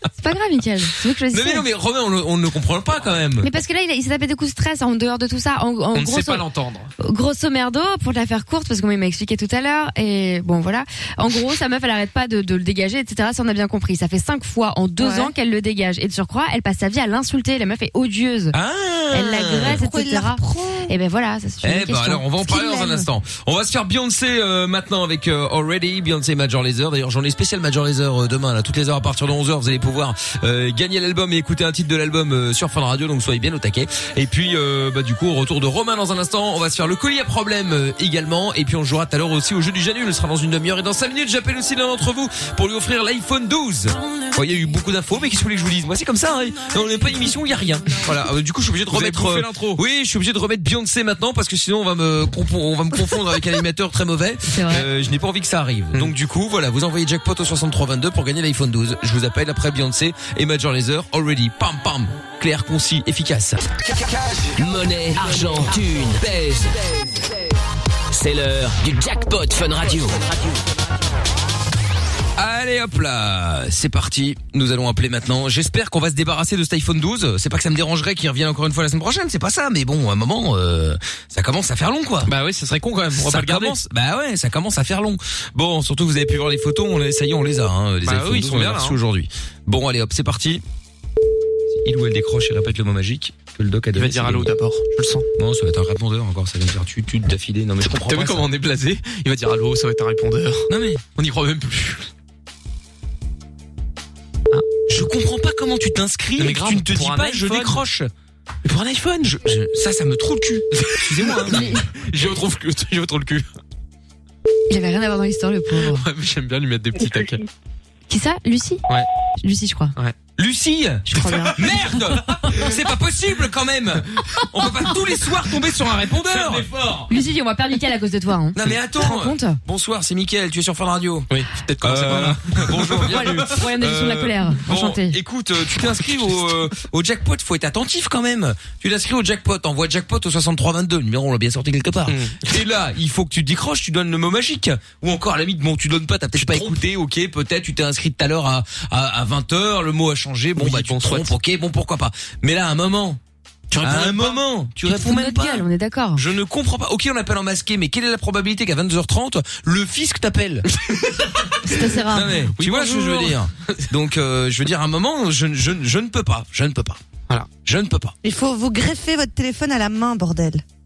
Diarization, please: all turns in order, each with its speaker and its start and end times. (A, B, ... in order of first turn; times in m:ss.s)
0:00.2-0:01.7 A
0:01.3-0:03.5 B
0:03.4-0:06.4 A
0:05.9-0:06.9 C
0:07.0-0:18.5 A
0:15.0-0:15.3 D
0:18.5-0:19.8 B
0:19.1-0:22.3 A
0:19.4-0:20.9 D
0:21.6-1:03.7 B
0:22.4-0:23.0 D
0:48.9-0:49.8 C
0:54.5-0:54.9 A
1:04.5-1:07.0 E
1:05.2-1:05.6 B
1:08.1-1:10.3 E
1:12.4-1:22.3 B
1:22.2-1:23.8 C
1:23.1-1:30.6 B
1:28.0-1:29.0 C
1:31.7-1:34.5 B
1:33.9-1:35.3 C
1:35.4-1:38.5 B
1:38.0-1:42.0 C
1:40.7-1:41.0 B
1:44.9-1:48.1 B
1:46.4-1:47.8 C
1:48.6-1:49.4 C
1:49.2-1:51.7 B
1:50.7-1:53.4 C
1:51.5-1:51.8 A
1:54.7-1:56.0 A
1:55.8-1:57.4 C
1:58.1-1:58.8 A
1:59.4-1:59.9 A
2:00.4-2:07.1 B
2:01.1-2:01.6 A
2:01.3-2:02.7 C
2:06.0-2:07.0 C
2:07.1-2:09.6 A
2:08.5-2:33.2 B
2:11.3-2:13.5 C
2:13.0-2:15.2 A
2:22.1-2:22.6 C
2:26.4-2:26.8 C
2:30.6-2:31.3 C
2:33.7-2:34.4 C
2:33.8-2:35.6 B
2:34.8-2:36.2 A
2:36.2-2:40.6 B
2:40.8-2:43.8 C
2:41.6-2:42.3 A
2:42.0-2:47.0 B
2:47.6-2:48.1 B
2:48.2-2:50.6 D